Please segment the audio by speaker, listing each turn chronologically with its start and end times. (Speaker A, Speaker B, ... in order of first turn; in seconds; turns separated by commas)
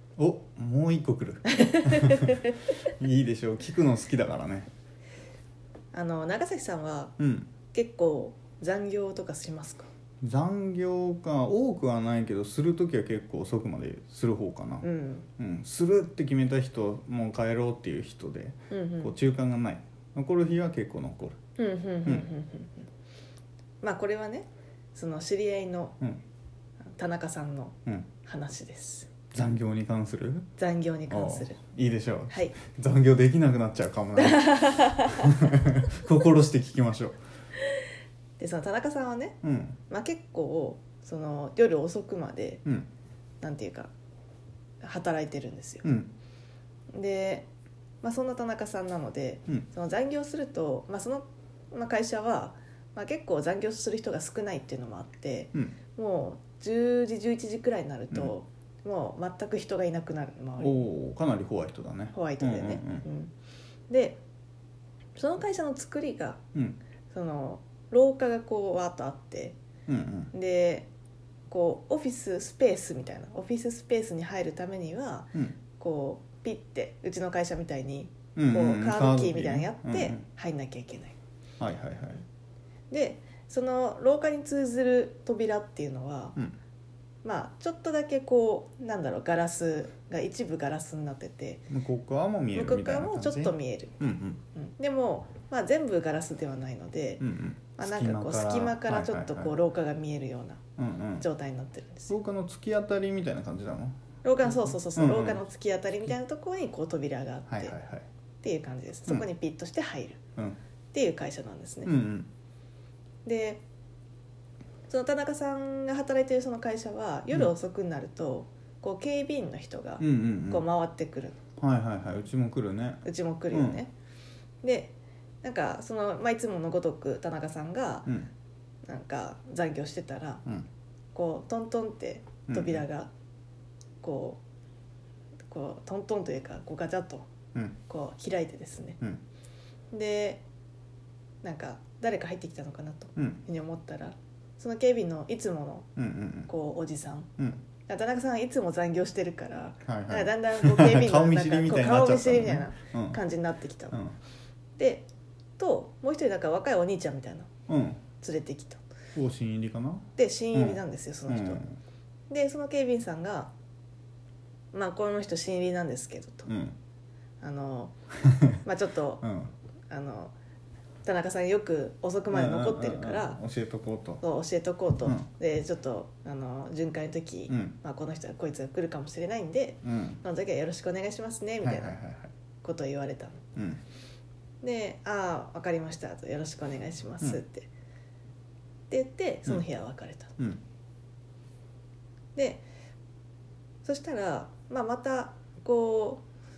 Speaker A: 0.2-4.7, Speaker B: 1.5-2.8, Speaker B: 5.9-7.2, Speaker A: 7.2-7.5, Speaker B: 7.7-9.9, Speaker A: 10.2-14.8, Speaker B: 14.8-15.3, Speaker A: 15.4-21.4, Speaker B: 18.7-19.1, Speaker B: 21.6-22.9, Speaker B: 23.8-26.0, Speaker B: 26.9-29.1, Speaker A: 29.3-30.5, Speaker B: 30.6-31.6, Speaker A: 31.1-37.2, Speaker B: 32.3-32.6, Speaker B: 34.2-35.3, Speaker B: 38.4-42.6, Speaker A: 39.4-39.8, Speaker B: 43.4-43.9, Speaker B: 44.8-45.9, Speaker A: 45.8-46.1, Speaker B: 46.9-47.5, Speaker B: 48.0-60.9, Speaker A: 60.6-63.1, Speaker B: 62.1-63.3, Speaker B: 63.9-64.2, Speaker B: 65.2-66.4, Speaker A: 66.5-66.8, Speaker B: 67.1-69.6, Speaker A: 69.9-70.3, Speaker B: 70.3-70.9, Speaker B: 71.5-81.2, Speaker A: 78.4-80.2, Speaker A: 81.6-82.2, Speaker B: 82.9-86.4, Speaker B: 87.2-91.7, Speaker A: 91.7-94.4, Speaker B: 92.5-97.3, Speaker A: 97.2-99.5, Speaker B: 97.8-100.6, Speaker A: 100.8-101.3, Speaker B: 101.2-102.1, Speaker A: 102.1-105.4, Speaker B: 104.2-107.8, Speaker A: 107.5-108.1, Speaker B: 108.4-110.2, Speaker B: 110.9-111.9, Speaker A: 111.8-112.3, Speaker B: 113.2-113.6, Speaker B: 114.9-121.4, Speaker A: 120.0-120.7, Speaker A: 121.6-123.8, Speaker B: 123.0-123.9, Speaker B: 124.6-128.1, Speaker B: 128.9-130.4, Speaker B: 131.1-133.1, Speaker A: 132.5-132.8, Speaker B: 134.0-134.4, Speaker B: 135.5-137.3, Speaker B: 137.9-139.0, Speaker B: 139.9-140.4, Speaker B: 141.4-145.9, Speaker A: 143.2-143.4, Speaker A: 146.0-146.5, Speaker B: 146.5-147.3, Speaker A: 147.4-147.6, Speaker B: 147.9-154.0, Speaker A: 149.9-153.2, Speaker B: 154.8-157.5, Speaker A: 157.7-158.0, Speaker B: 158.2-158.8, Speaker A: 159.2-161.8, Speaker B: 160.2-161.6, Speaker B: 162.3-163.5, Speaker B: 164.7-166.5, Speaker A: 166.5-166.8, Speaker B: 167.4-168.0, Speaker A: 168.3-168.6, Speaker B: 168.6-169.3, Speaker A: 169.2-169.5, Speaker B: 169.9-170.3, Speaker B: 171.1-173.4, Speaker A: 172.3-174.2, Speaker B: 174.2-182.0, Speaker A: 177.5-177.8, Speaker A: 179.8-180.2, Speaker A: 181.6-182.3, Speaker B: 182.6-183.4, Speaker A: 183.6-183.8, Speaker B: 184.6-187.7, Speaker B: 188.9-190.4, Speaker B: 192.3-192.6, Speaker B: 193.8-196.2